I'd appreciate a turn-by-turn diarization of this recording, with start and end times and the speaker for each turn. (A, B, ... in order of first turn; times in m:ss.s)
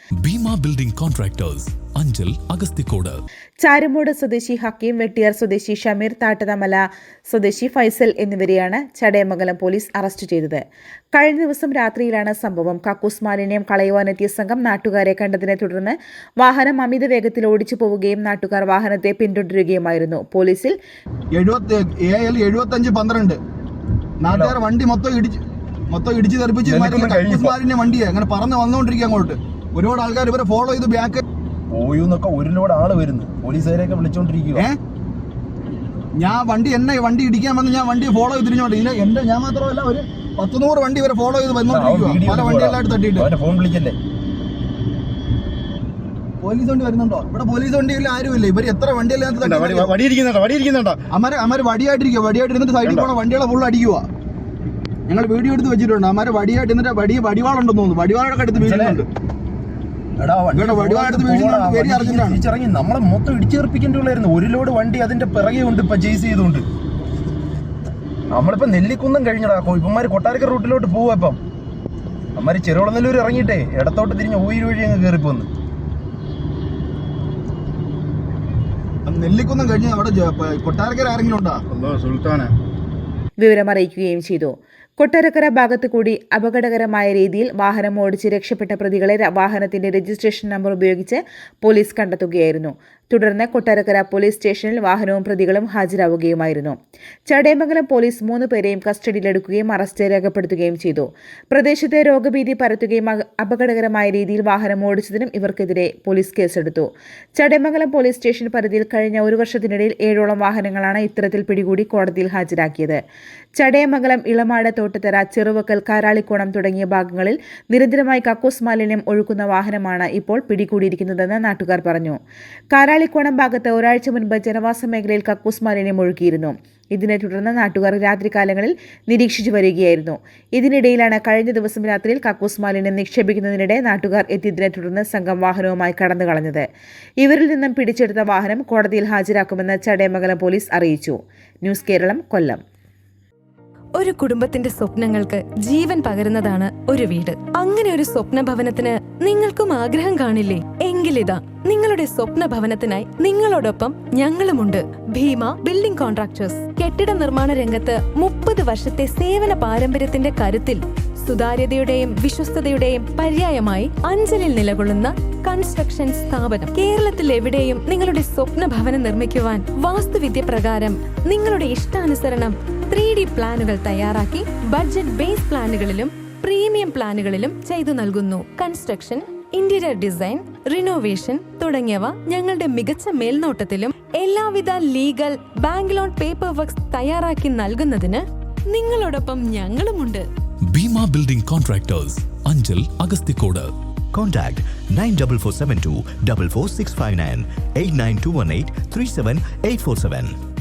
0:00.2-0:03.2 A
0:03.6-0:20.8 B
0:21.3-0:23.4 C
0:24.2-0:31.2 C
0:24.3-0:24.6 D
0:26.6-0:27.5 D
0:31.7-0:34.7 D
0:36.2-0:43.3 C
0:41.7-0:44.0 D
0:46.4-0:49.9 C
0:49.4-0:51.1 D
0:51.1-0:54.0 C
0:55.1-0:59.1 C
0:58.5-0:59.0 D
1:00.2-1:06.6 D
1:00.6-1:02.4 C
1:08.3-1:11.4 D
1:12.4-1:15.5 D
1:19.0-1:21.6 C
1:21.8-1:22.5 D
1:23.4-1:36.8 B
1:37.3-1:53.0 B
1:53.6-2:02.2 B
2:02.7-2:16.6 B
2:17.2-2:22.6 B
2:24.0-3:10.2 E
3:10.7-3:13.7 A
3:14.1-3:20.3 F